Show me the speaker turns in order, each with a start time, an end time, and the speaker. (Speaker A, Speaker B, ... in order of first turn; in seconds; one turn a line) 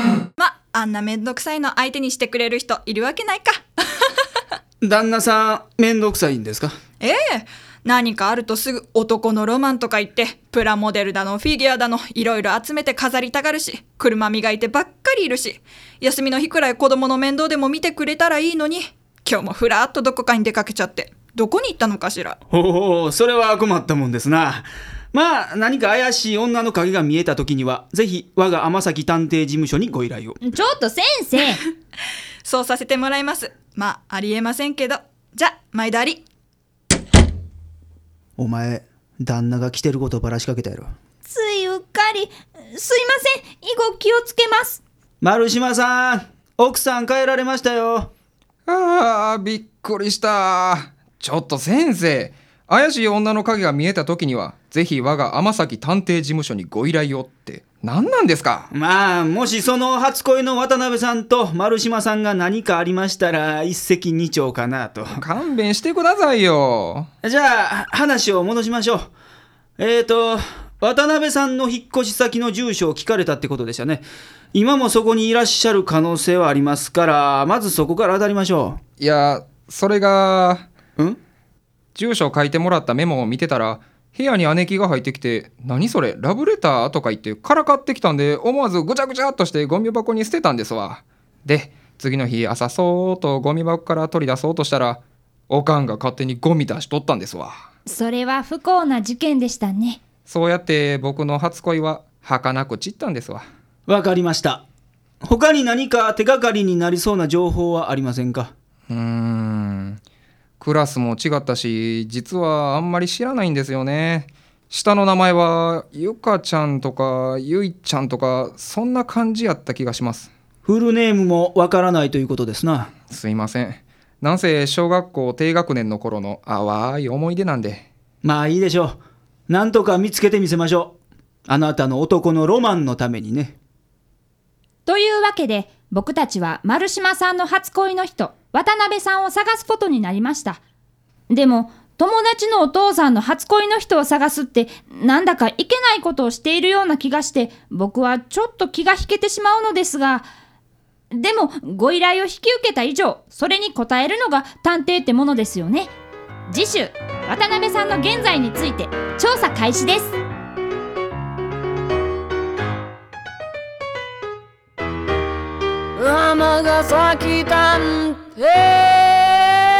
Speaker A: 0.4-4.1
Speaker B: 4.8-6.7
Speaker A: 7.0-22.4
Speaker B: 22.5-30.4
Speaker C: 30.4-31.6
Speaker A: 32.4-36.2
Speaker B: 38.4-40.9
Speaker C: 41.2-44.8
Speaker B: 45.2-48.1
Speaker D: 48.7-58.7
Speaker B: 58.7-65.2
Speaker D: 65.1-67.1
Speaker B: 67.2-69.1
Speaker B: 69.8-78.8
Speaker D: 79.0-80.7
Speaker D: 82.0-97.6
Speaker C: 97.9-100.0
Speaker D: 100.2-103.5
Speaker B: 103.9-104.7
Speaker B: 105.2-108.5
Speaker D: 108.9-110.0
Speaker D: 110.6-120.3
Speaker B: 120.6-122.9
Speaker D: 123.1-127.9
Speaker B: 128.2-129.0
Speaker B: 129.5-133.6
Speaker C: 134.9-140.6
Speaker C: 141.3-150.2
Speaker C: 151.1-155.9
Speaker C: 156.5-160.2
Speaker E: 166.0-169.5